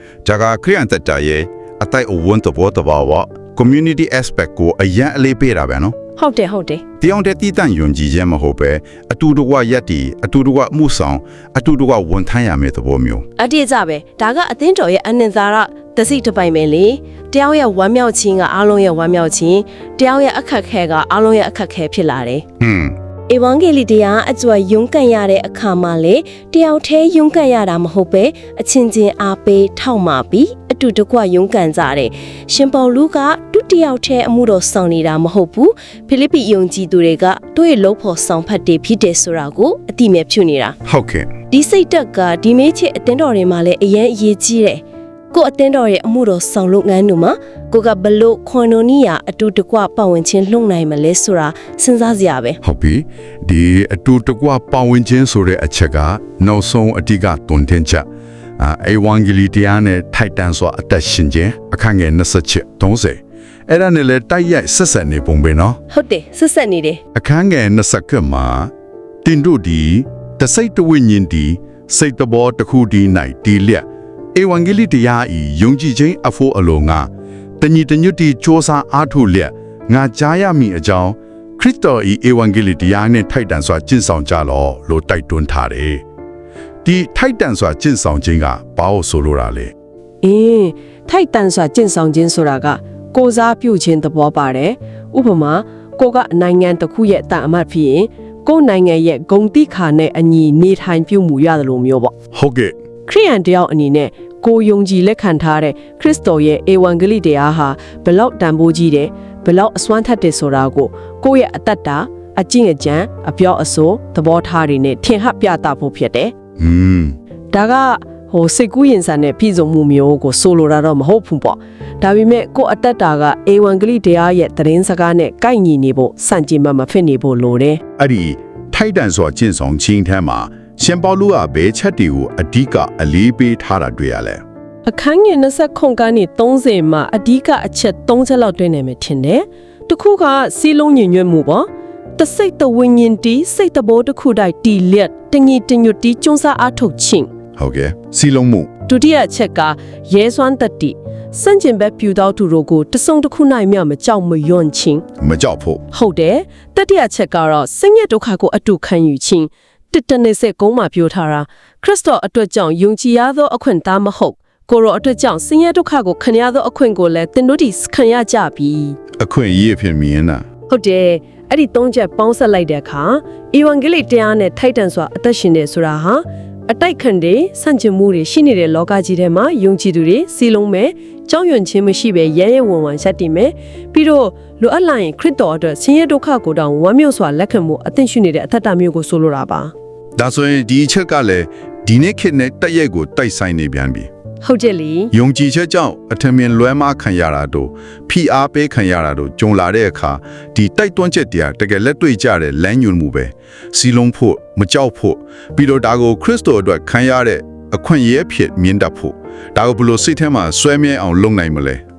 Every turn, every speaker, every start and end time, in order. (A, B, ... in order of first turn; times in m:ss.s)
0:00.2-0:06.0 A
0:06.2-0:06.8 B
0:07.0-0:13.3 A
0:13.4-0:22.4 B
0:22.6-0:23.0 A
0:23.3-0:40.8 B
0:40.9-0:41.3 A
0:41.5-0:52.6 B
0:52.6-0:58.1 A
0:58.6-1:05.8 A
1:05.9-1:07.0 B
1:07.1-1:08.7 A
1:09.2-1:26.0 A
1:26.8-1:29.7 A
1:30.2-1:42.1 C
1:42.3-1:42.8 A
1:43.1-1:56.3 C
1:56.6-1:57.2 A
1:57.5-2:07.8 C
2:08.0-2:14.4 A
2:14.9-2:27.1 C
2:27.6-2:28.7 A
2:28.9-2:35.0 C
2:35.2-2:35.8 A
2:35.9-2:40.4 B
2:36.4-2:37.2 C
2:37.7-2:39.3 C
2:40.0-2:44.1 C
2:41.0-2:49.0 B
2:44.7-2:48.5 C
2:49.2-2:50.5 A
2:50.7-3:09.7 C
3:10.2-3:14.1 A
3:14.4-3:15.1 C
3:15.1-3:31.8 A